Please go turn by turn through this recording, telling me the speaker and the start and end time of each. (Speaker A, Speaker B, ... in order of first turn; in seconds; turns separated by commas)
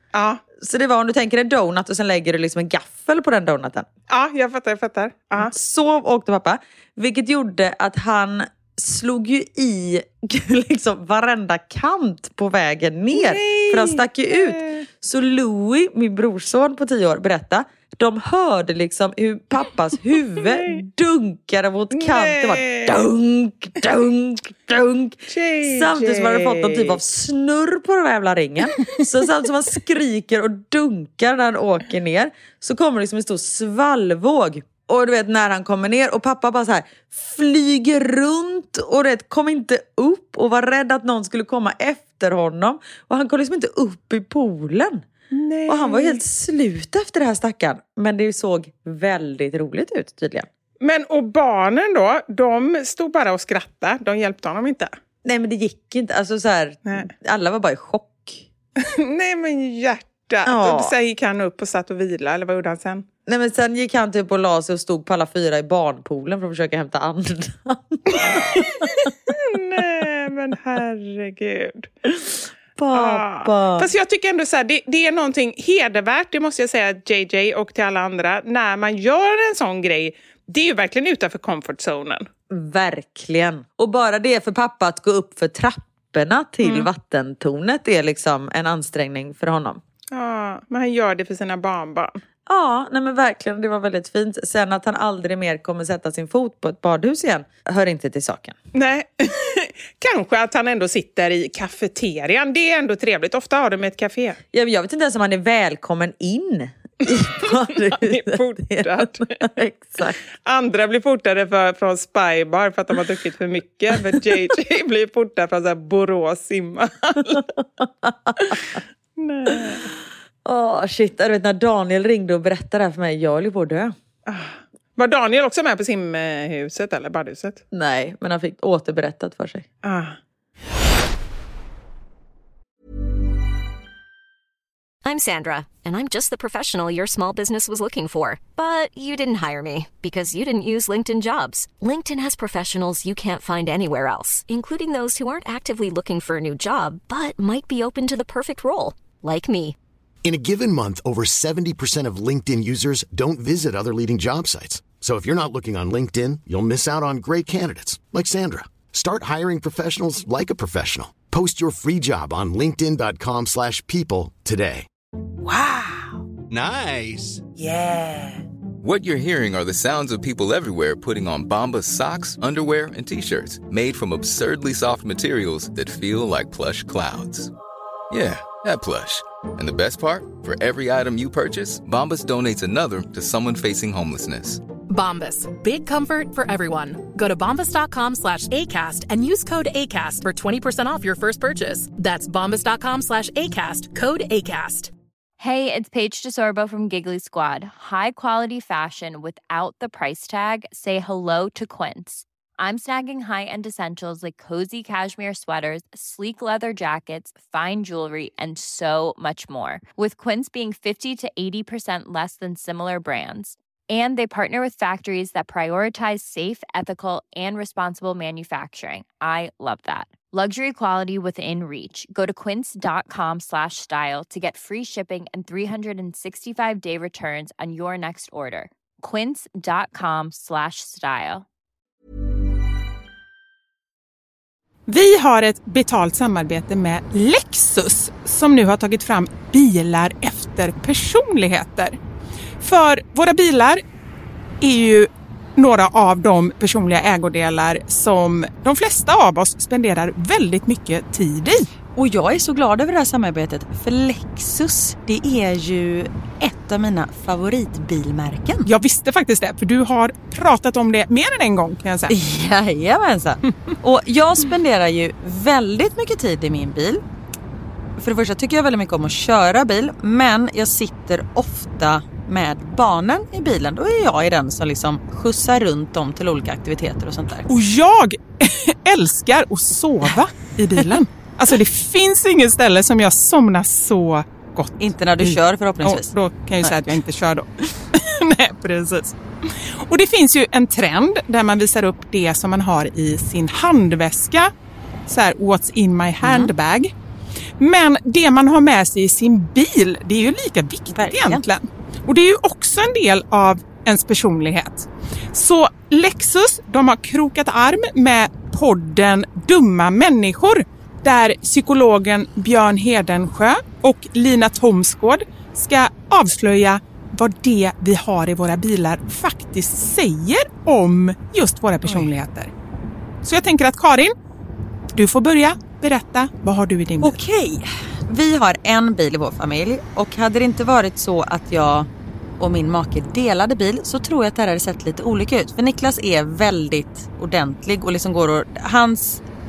Speaker A: 0.1-0.4, Speaker B: 0.6-3.9, Speaker A: 4.1-5.5, Speaker B: 5.4-45.1, Speaker A: 13.1-14.8, Speaker A: 20.4-20.8, Speaker A: 21.9-23.0, Speaker A: 25.3-27.0, Speaker A: 45.3-46.2, Speaker B: 45.7-50.5, Speaker A: 50.8-54.9, Speaker B: 55.2-58.5, Speaker A: 58.8-63.0, Speaker B: 60.4-60.9, Speaker B: 63.2-68.9, Speaker A: 68.1-71.9, Speaker B: 72.8-73.9, Speaker A: 72.9-82.3, Speaker B: 82.5-89.8, Speaker A: 86.6-86.9, Speaker A: 90.1-92.2, Speaker B: 92.5-98.5, Speaker A: 98.7-104.4, Speaker B: 104.5-110.2, Speaker A: 107.4-109.4, Speaker A: 110.4-117.4, Speaker B: 117.3-118.8, Speaker A: 118.4-119.9, Speaker B: 119.5-119.8, Speaker B: 120.4-123.9, Speaker A: 124.3-127.6, Speaker B: 127.7-129.7, Speaker A: 129.8-130.2, Speaker C: 135.0-149.8, Speaker D: 150.2-164.9, Speaker B: 165.4-166.2, Speaker E: 166.5-167.4, Speaker B: 167.6-168.4, Speaker E: 168.8-177.5, Speaker E: 178.1-184.6, Speaker F: 184.9-194.9, Speaker G: 195.4-231.4, Speaker A: 234.9-242.0, Speaker A: 242.6-243.8, Speaker A: 244.6-251.7, Speaker B: 251.9-258.7, Speaker A: 258.6-262.1, Speaker B: 262.1-267.0, Speaker B: 268.0-277.5, Speaker A: 277.5-294.5, Speaker B: 284.8-286.9, Speaker A: 295.1-296.9, Speaker B: 296.2-296.5, Speaker A: 297.6-322.5, Speaker B: 300.9-301.4, Speaker A: 323.2-324.1, Speaker A: 324.9-327.2, Speaker B: 327.0-339.2